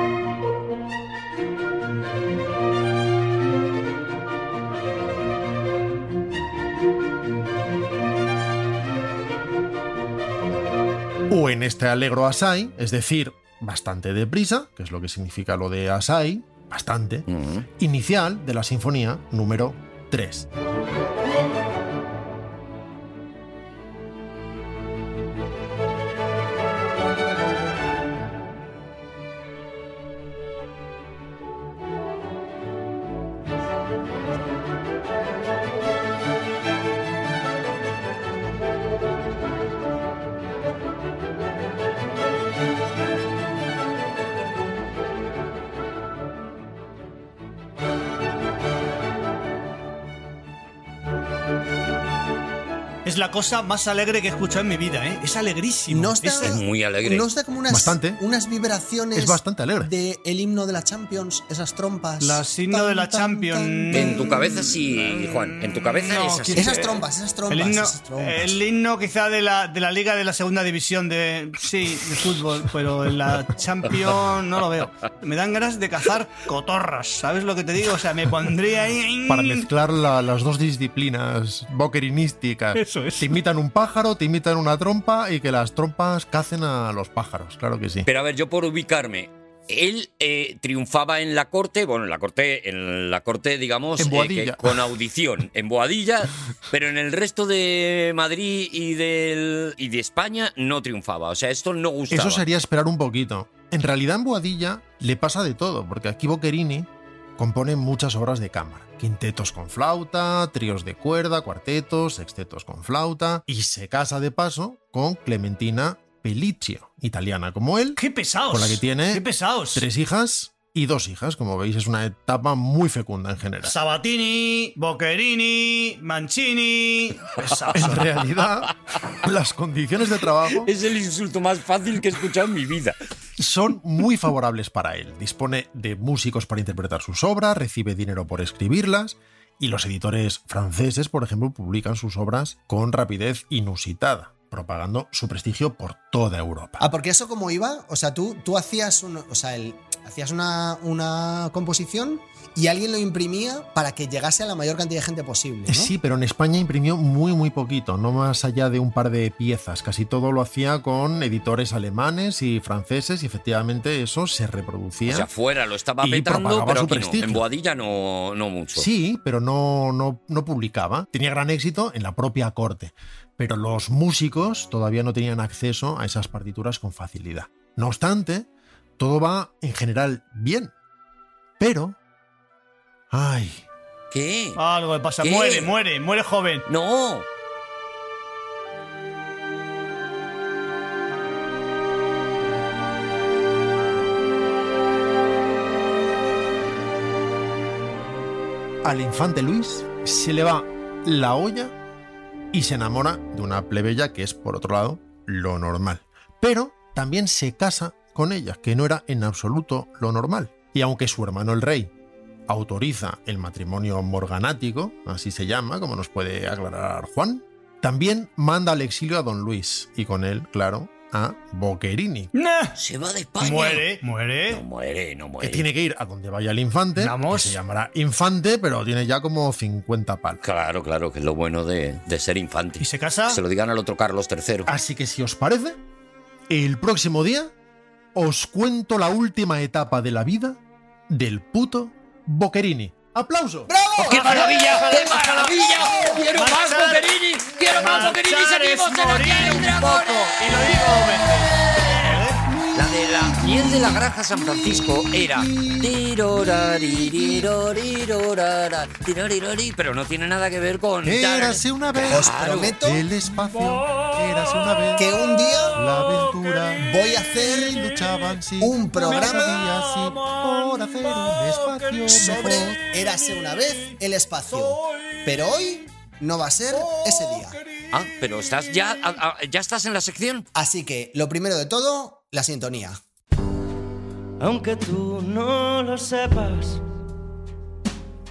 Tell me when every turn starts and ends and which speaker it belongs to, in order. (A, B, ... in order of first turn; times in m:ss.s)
0:11.3-0:17.3 A
0:17.3-0:17.7 B
0:17.8-0:20.5 A
0:53.0-0:56.6 C
0:55.9-1:04.3 D
0:56.4-0:57.3 B
0:57.7-0:58.2 A
0:59.1-0:59.9 A
1:02.2-1:04.4 C
1:03.9-1:06.9 B
1:05.0-1:19.7 C
1:06.6-1:08.6 D
1:19.3-1:28.1 A
1:22.8-1:23.4 C
1:28.1-1:42.4 B
1:34.0-1:34.8 A
1:42.1-2:03.8 A
1:58.0-1:59.9 C
2:03.6-2:08.1 C
2:07.7-2:10.7 A
2:10.5-2:13.0 B
2:13.4-2:26.8 A
2:26.8-2:35.9 D
2:35.7-2:45.3 A
2:45.1-2:48.9 B
2:46.0-2:47.4 A
2:48.8-2:58.5 A
2:59.0-3:00.7 A
3:01.6-3:02.0 A
3:03.1-3:03.6 A
3:04.1-3:04.6 B
3:04.6-3:06.6 C
3:05.2-3:05.7 B
3:06.7-3:07.3 B
3:18.8-3:21.7 A
3:22.5-3:31.9 A
3:32.5-3:42.3 A
3:42.3-3:42.8 C
3:42.8-3:43.9 B
3:43.4-3:44.6 C
3:44.5-3:45.7 B
3:45.4-3:50.4 A
3:47.0-3:47.6 C
3:50.4-3:54.7 B
3:52.8-3:53.4 C
3:54.7-3:55.8 A
3:56.5-3:57.5 A
3:58.2-4:03.7 A
4:03.7-4:04.4 D
4:04.0-4:22.8 B
4:04.1-4:07.1 C
4:07.7-4:12.4 C
4:21.0-4:25.1 A
4:22.1-4:23.0 D
4:25.0-4:25.9 D
4:25.7-4:32.8 A
4:26.8-4:27.8 D
4:28.6-4:29.6 D
4:32.1-4:37.6 D
4:37.9-4:40.5 B
4:40.6-4:43.0 D
4:44.4-4:46.8 E